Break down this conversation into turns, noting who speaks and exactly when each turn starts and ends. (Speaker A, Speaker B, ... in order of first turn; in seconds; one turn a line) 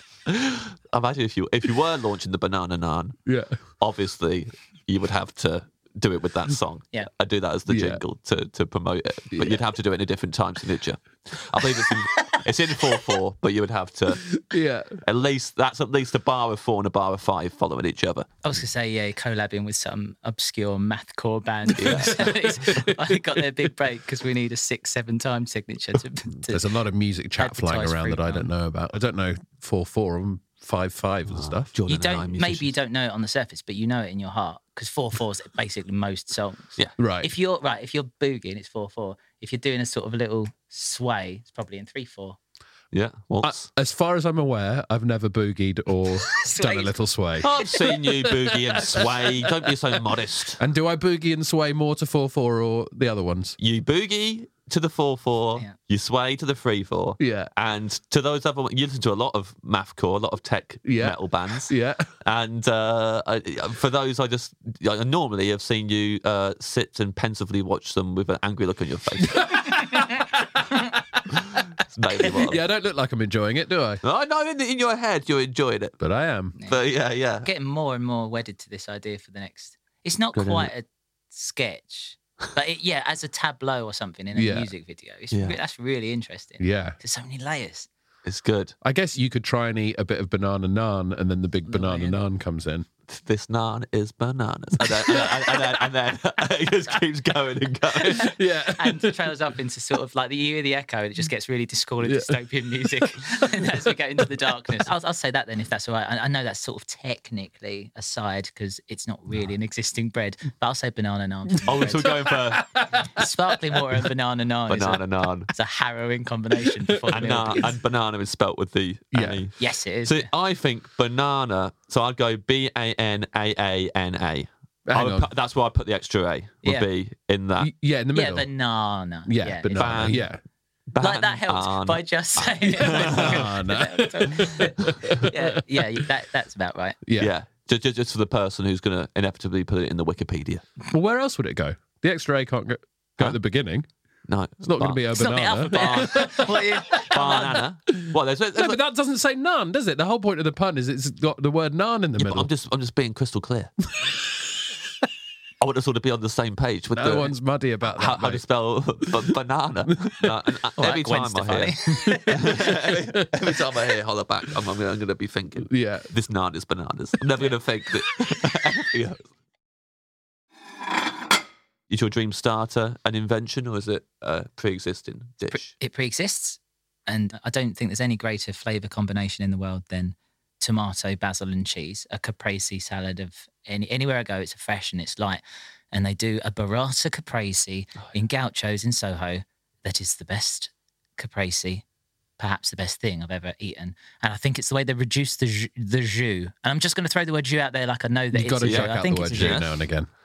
Speaker A: 0.3-3.2
Speaker B: 3.3-3.5
Speaker A: 3.8-14.4
Speaker B: 7.7-8.0
Speaker B: 9.3-9.6
Speaker B: 14.3-14.9
Speaker A: 15.0-18.3
Speaker C: 18.4-26.6
Speaker B: 21.7-23.4
Speaker A: 21.8-22.3
Speaker B: 26.5-31.7
Speaker C: 27.4-28.5
Speaker A: 31.3-32.7
Speaker C: 31.9-42.4
Speaker B: 37.0-37.3
Speaker A: 42.9-43.7
Speaker B: 43.4-47.5
Speaker C: 46.3-46.9
Speaker A: 47.4-50.6
Speaker B: 48.5-49.5
Speaker B: 50.6-53.6
Speaker A: 53.6-69.7
Speaker B: 57.2-57.5
Speaker B: 60.9-62.1
Speaker B: 69.3-70.2
Speaker A: 71.8-72.6
Speaker B: 72.5-74.0
Speaker A: 74.0-76.0
Speaker B: 76.0-76.5
Speaker A: 76.7-77.5
Speaker C: 77.4-87.9
Speaker A: 80.3-80.7
Speaker B: 84.3-84.7
Speaker A: 85.3-85.6
Speaker B: 86.6-87.0
Speaker A: 88.2-88.8
Speaker B: 88.8-92.9
Speaker C: 91.7-92.2
Speaker A: 93.1-98.3
Speaker B: 98.0-99.2
Speaker C: 98.2-112.2
Speaker B: 102.0-103.9
Speaker B: 111.6-113.8
Speaker A: 111.7-112.8
Speaker C: 113.0-117.7
Speaker A: 114.7-115.5
Speaker A: 117.1-127.7
Speaker B: 117.1-117.7
Speaker B: 119.1-119.4
Speaker C: 119.6-120.3
Speaker B: 124.9-125.3
Speaker B: 127.6-128.5
Speaker C: 128.1-130.2
Speaker B: 129.3-130.4
Speaker A: 129.8-130.3
Speaker A: 130.9-132.0
Speaker C: 131.0-137.0
Speaker A: 132.7-133.5
Speaker B: 132.7-136.0
Speaker A: 137.2-140.6
Speaker B: 140.9-143.9
Speaker A: 144.3-148.8
Speaker B: 144.6-147.4
Speaker C: 145.1-147.6
Speaker B: 148.0-152.5
Speaker A: 152.2-153.7
Speaker A: 155.6-157.3
Speaker B: 156.9-158.4
Speaker A: 157.9-169.2
Speaker C: 160.8-162.6
Speaker B: 161.9-163.2
Speaker B: 165.7-166.1
Speaker A: 171.9-175.7
Speaker C: 175.5-191.8
Speaker C: 192.4-199.7
Speaker B: 198.3-200.1
Speaker A: 198.6-199.7